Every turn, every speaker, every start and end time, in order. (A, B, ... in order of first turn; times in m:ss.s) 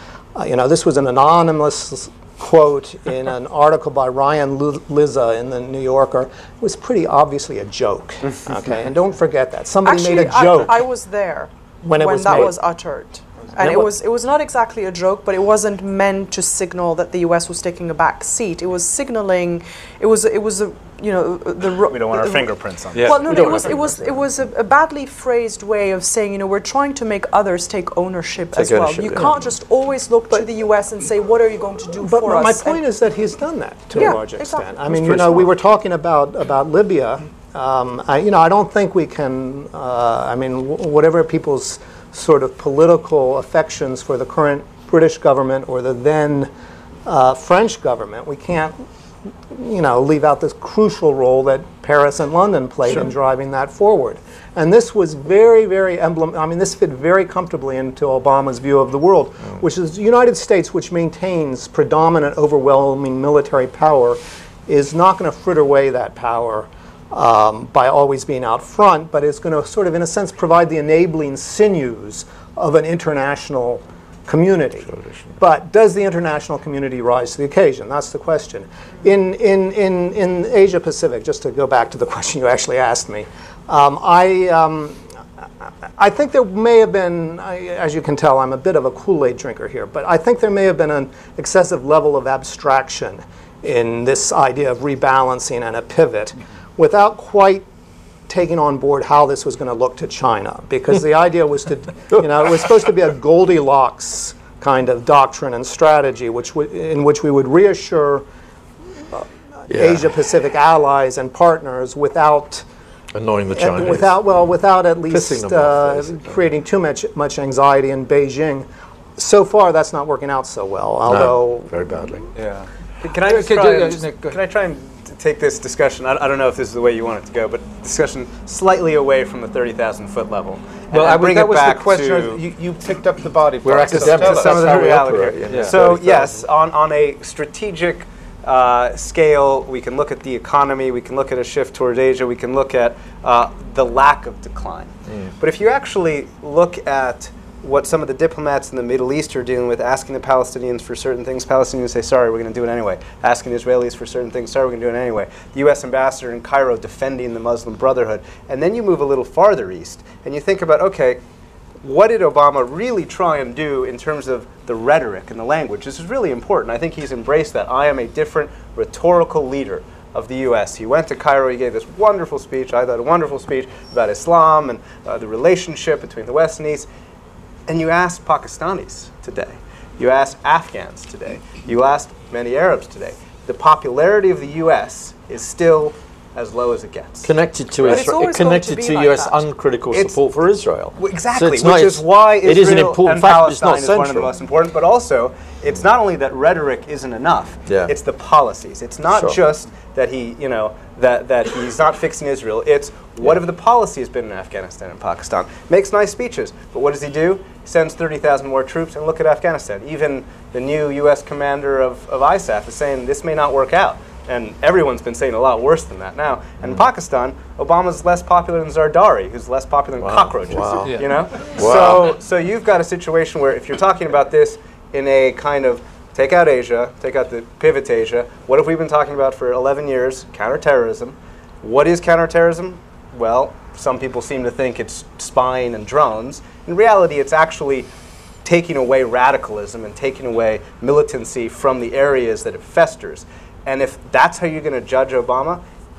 0:00.4-0:10.7 A
0:09.8-0:32.8 B
0:11.8-0:12.6 A
0:21.9-0:23.7 C
0:23.0-0:23.6 D
0:23.3-0:23.9 E
0:28.6-0:29.3 E
0:32.0-0:46.5 A
0:34.0-0:34.7 B
0:34.9-0:35.5 E
0:47.0-0:48.8 A
0:49.5-1:25.0 A
1:14.9-1:15.3 E
1:26.0-1:37.7 A
1:38.3-1:48.3 A
1:49.1-1:52.7 A
1:49.7-1:50.1 E
1:53.2-1:54.2 E
1:53.6-2:02.0 A
1:55.1-1:56.4 E
2:01.1-2:02.2 E
2:02.4-2:04.4 D
2:03.0-2:12.4 C
2:10.9-2:15.8 D
2:13.6-2:16.4 E
2:13.9-2:41.2 C
2:41.8-2:56.9 C
2:57.7-3:08.1 C
3:07.2-3:14.3 E
3:07.9-3:09.4 B
3:09.9-3:10.2 C
3:11.0-3:57.9 C
3:17.7-3:17.9 E
3:19.1-3:19.4 E
3:40.0-3:42.1 E
3:40.8-3:41.2 D
3:58.4-4:05.6 C